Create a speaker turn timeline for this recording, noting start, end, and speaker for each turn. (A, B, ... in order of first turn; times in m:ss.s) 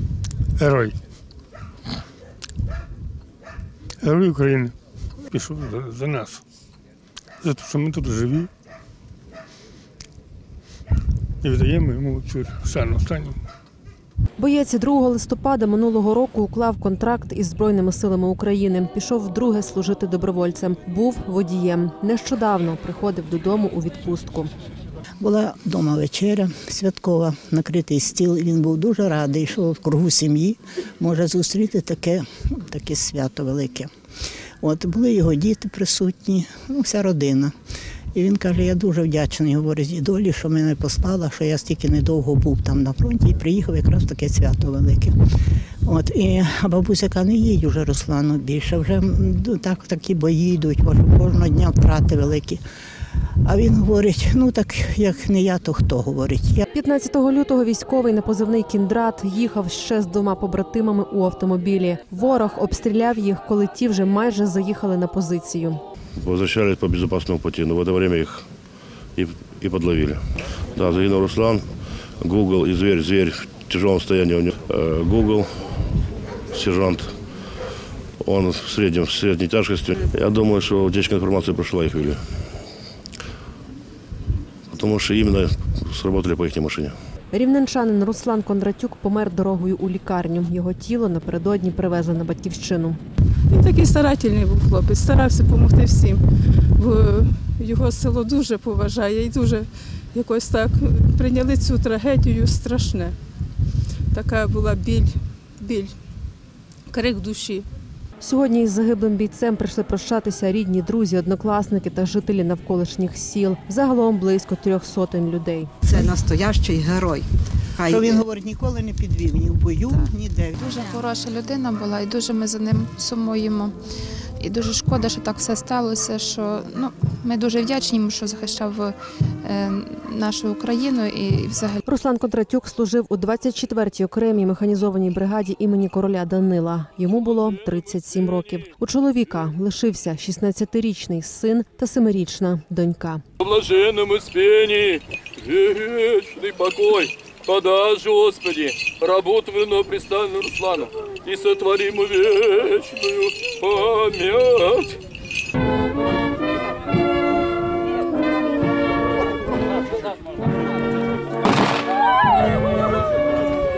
0:00.6-0:01.0 A
0:04.0-0:06.4 A
0:07.4-0:08.5 A
0:11.4-0:13.4 A
0:14.4-0:24.5 B
0:25.2-0:33.9 C
0:34.6-0:37.5 C
0:38.1-0:45.2 C
0:45.8-0:52.6 C
0:53.4-0:56.6 C
0:56.7-1:05.8 B
1:06.2-1:08.4 D
1:09.2-1:10.2 D
1:10.7-1:11.6 D
1:12.2-1:15.9 D
1:16.5-1:17.1 D
1:18.2-1:22.2 D
1:24.7-1:26.9 D
1:27.3-1:33.0 B
1:33.5-1:36.2 E
1:36.8-1:43.2 E
1:44.1-1:45.9 E
1:46.9-1:47.7 E
1:48.2-1:55.7 B
1:55.8-1:58.2 F
1:57.8-2:00.6 C
2:00.6-2:03.8 G
2:04.4-2:11.8 G
2:11.8-2:23.2 B
2:23.4-2:35.0 H